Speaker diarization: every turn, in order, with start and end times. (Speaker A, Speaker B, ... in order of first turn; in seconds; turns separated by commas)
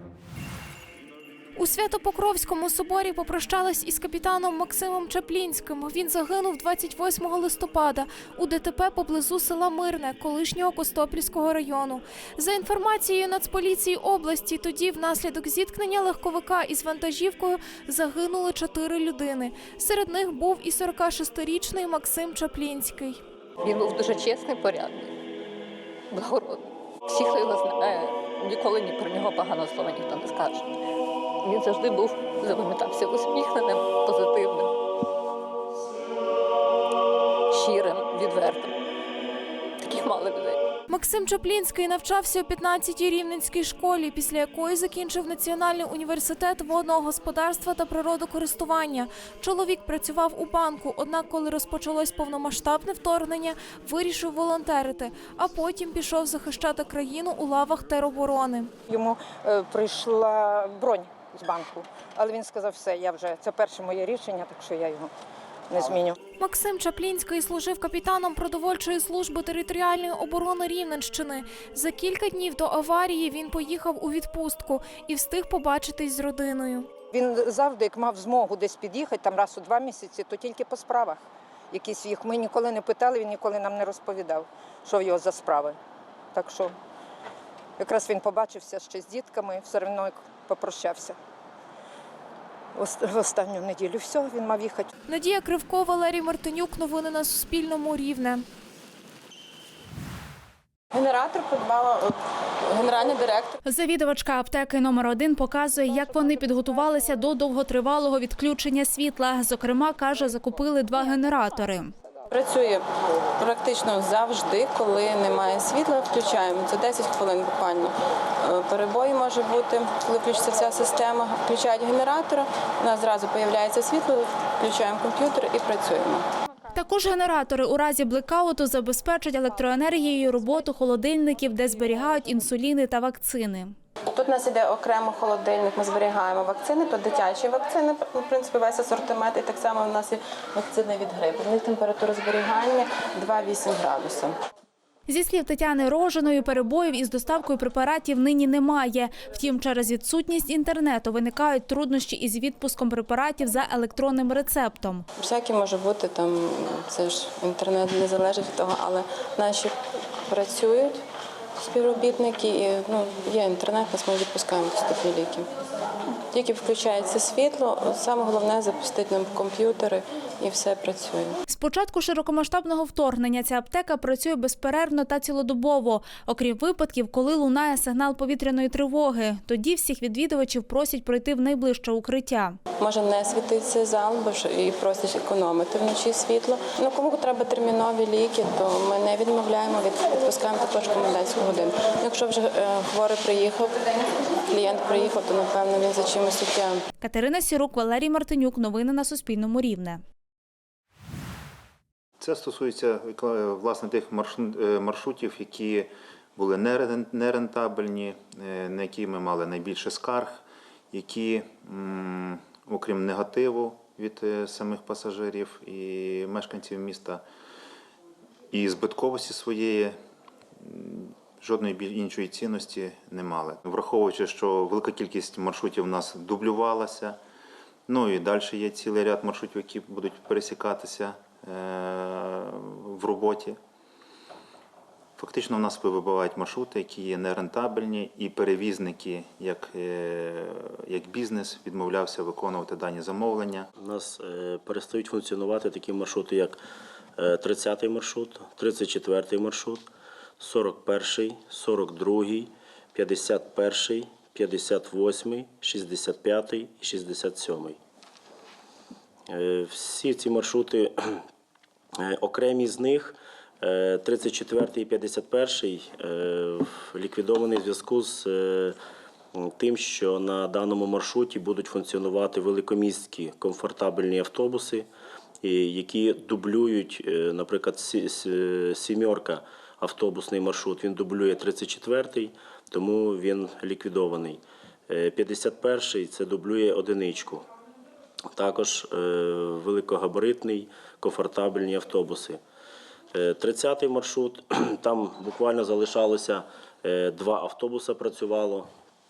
Speaker A: 1.6-23.2, Speaker B: 23.6-25.1, Speaker B: 26.1-30.8, Speaker B: 31.4-34.7, Speaker B: 37.5-38.7, Speaker B: 39.8-40.6, Speaker A: 40.9-58.7, Speaker C: 58.9-65.1, Speaker C: 65.7-66.2, Speaker A: 66.4-76.9, Speaker C: 77.1-81.2, Speaker C: 81.7-85.8, Speaker C: 86.3-86.7, Speaker C: 87.8-91.2, Speaker C: 92.8-94.9, Speaker A: 95.1-98.4, Speaker D: 100.9-102.1, Speaker D: 102.7-103.6, Speaker E: 103.7-111.9, Speaker D: 112.3-112.8, Speaker D: 113.4-126.2, Speaker E: 126.7-133.7, Speaker D: 134.1-144.3, Speaker E: 145.1-155.0, Speaker D: 155.2-159.7, Speaker D: 160.3-161.0, Speaker D: 161.6-165.5, Speaker D: 166.3-171.4, Speaker E: 171.5-182.6, Speaker D: 182.8-196.8, Speaker E: 197.0-200.0, Speaker F: 202.2-217.2, Speaker F: 218.5-220.0, Speaker F: 220.6-227.2, Speaker F: 227.9-233.6, Speaker F: 235.2-243.7, Speaker G: 243.8-246.6, Speaker G: 247.2-249.8, Speaker G: 250.4-257.8, Speaker G: 259.3-261.2, Speaker G: 262.0-268.8, Speaker G: 269.3-274.9, Speaker G: 275.4-287.4, Speaker G: 288.3-292.4, Speaker G: 293.1-298.7